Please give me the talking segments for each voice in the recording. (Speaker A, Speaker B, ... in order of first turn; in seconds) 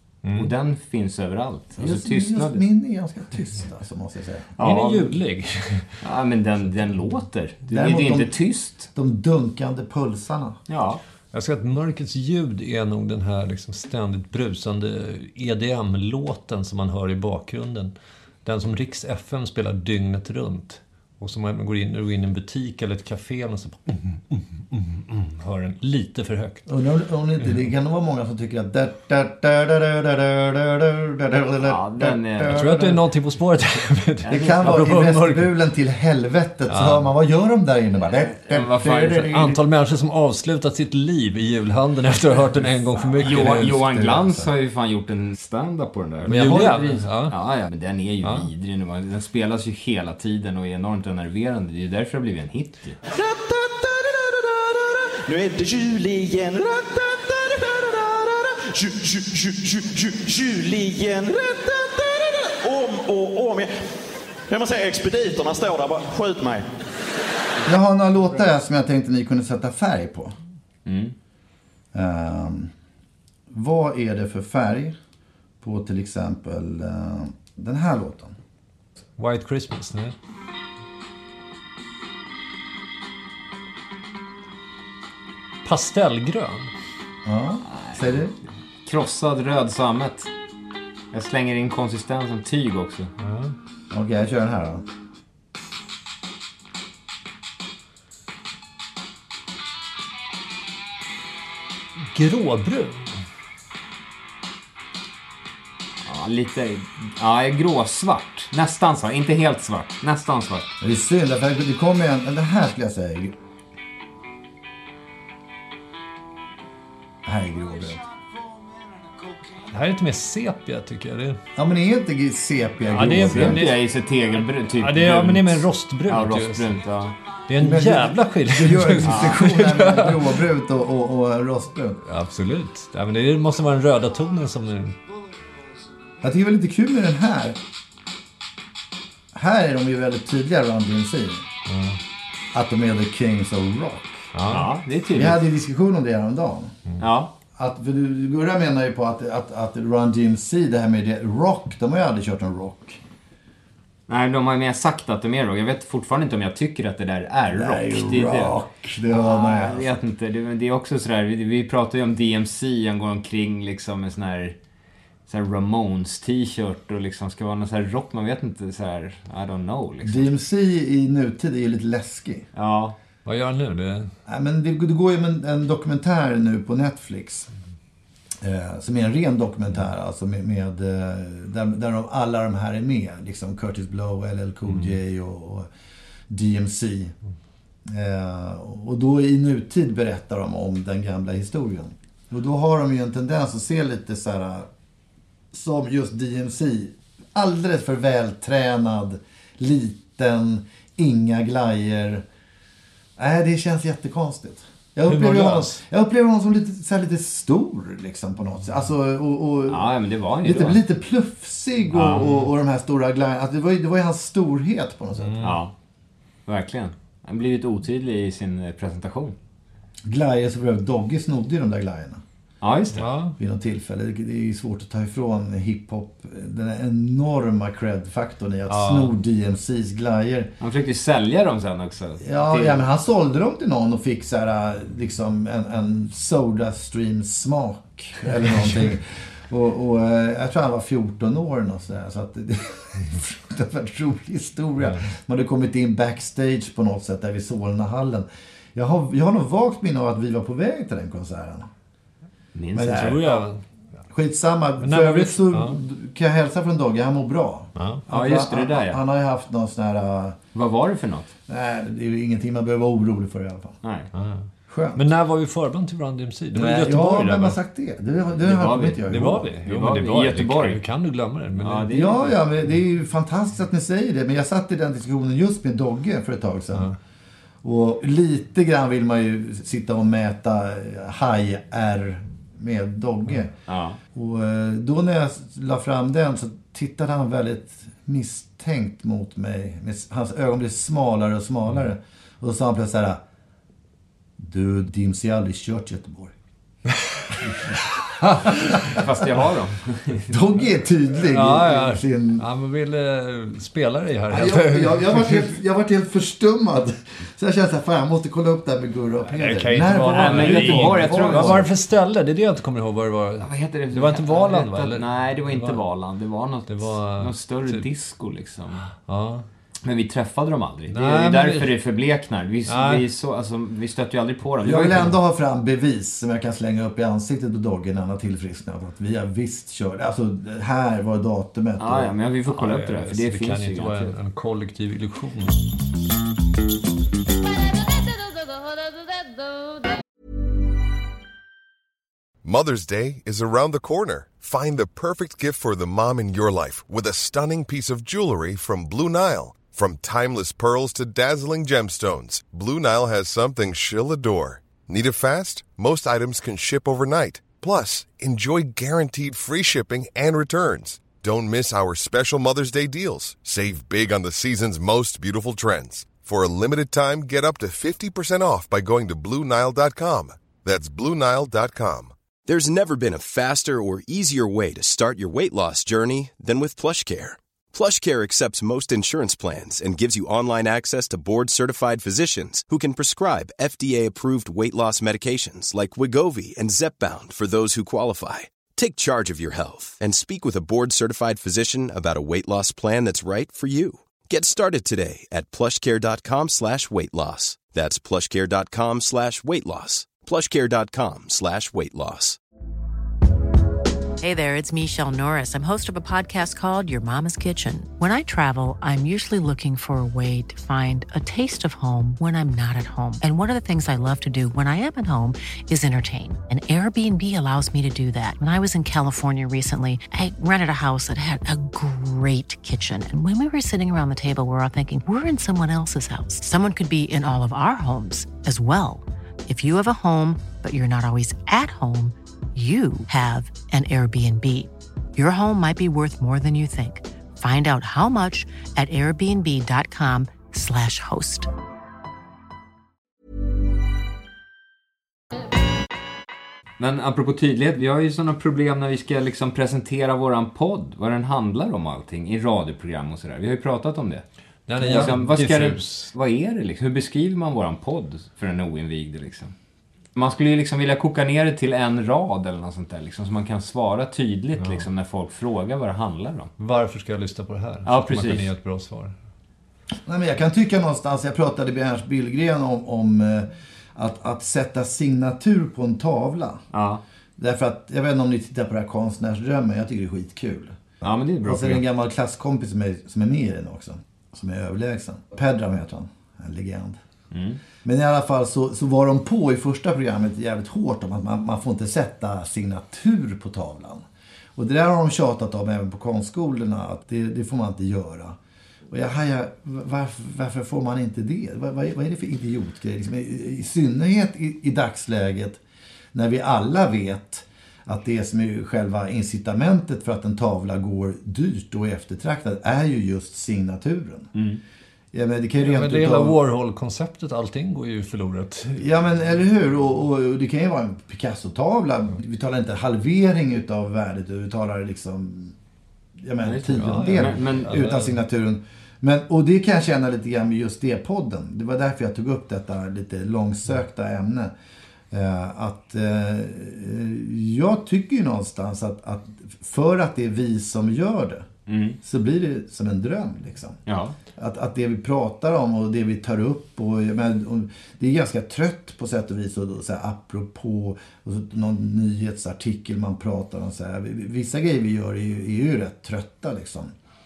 Speaker A: 0.2-0.5, 4.6-6.0, 11.3-17.9, 18.4-26.6, 32.5-35.5, 36.7-37.1, 39.0-43.9, 46.2-47.4, 79.2-80.1, 85.6-86.7, 93.2-93.5, 102.1-103.2, 119.7-121.4, 122.9-123.8, 124.7-126.8, 127.5-130.3, 132.1-135.0, 141.7-142.0, 144.3-144.7, 173.2-174.1, 205.1-205.8, 215.2-215.6, 222.9-223.3, 228.7-229.1, 244.8-245.0, 252.8-253.6, 254.8-255.8, 257.8-258.0, 264.1-264.4, 264.9-267.6, 269.1-272.1, 298.2-298.5, 301.2-305.6, 309.3-315.8, 316.7-317.9, 318.9-319.4, 320.9-321.7, 322.7-323.0, 332.5-335.6, 454.7-456.1, 464.6-464.9, 466.6-469.1, 515.6-518.8, 526.7-528.2
Speaker B: 0.3-2.6, 4.6-5.2, 6.0-8.9, 10.7-11.0, 31.6-33.0, 34.2-34.7, 38.1-39.6, 43.2-53.0, 70.8-71.1, 87.6-88.3, 88.8-90.3, 91.1-93.1, 106.0-110.7, 123.3-127.1, 129.0-129.4, 144.5-145.4, 147.0-147.3, 154.1-158.5, 159.1-164.6, 165.3-170.3, 172.5-172.9, 209.7-210.8, 211.9-212.2, 215.4-215.7, 216.5-219.3, 222.6-223.0, 230.6-232.8, 252.5-253.2, 258.1-259.0, 260.5-261.3, 263.8-264.1, 268.4-269.1, 269.6-270.8, 271.6-272.3, 283.7-284.0, 298.8-300.4, 310.1-311.6, 313.4-318.8, 319.8-325.1, 331.8-334.1, 446.8-454.2, 454.8-459.5, 460.1-466.5, 467.9-468.5, 476.7-477.0, 481.0-481.8, 487.3-487.6, 514.3-514.6, 526.4-527.7, 541.7-542.0, 543.9-544.1
Speaker C: 1.8-4.5, 7.7-10.6, 26.7-32.8, 34.3-39.1, 43.0-44.5, 67.7-70.3, 71.9-72.7, 73.5-75.0, 75.6-78.3, 87.2-88.3, 93.9-94.8, 110.8-113.3, 117.2-118.0, 121.5-123.7, 127.6-132.0, 136.2-137.6, 139.3-141.4, 142.5-144.3, 145.1-146.8, 147.6-153.0, 157.5-160.0, 170.0-172.4, 174.2-177.5, 178.4-185.7, 186.3-187.2, 187.8-194.7, 195.5-202.2, 203.2-215.4, 220.1-222.2, 223.4-230.5, 232.2-251.7, 252.7-253.5, 254.1-260.4, 261.5-263.8, 264.7-265.1, 266.5-269.5, 271.9-276.9, 277.6-283.5, 284.1-293.2, 294.4-296.3, 300.3-302.4, 304.3-311.7, 324.6-332.1, 454.8-455.1, 470.1-476.6, 477.4-480.8, 481.4-487.0, 487.8-494.0, 494.6-498.4, 498.9-505.6, 506.1-514.3, 515.1-516.4, 518.8-525.5, 526.2-534.5, 535.1-541.5, 542.0-543.8, 544.4-556.9
Speaker D: 53.1-63.7, 64.5-66.7
Speaker E: 342.4-372.1
Speaker F: 372.5-402.4
Speaker G: 404.2-441.5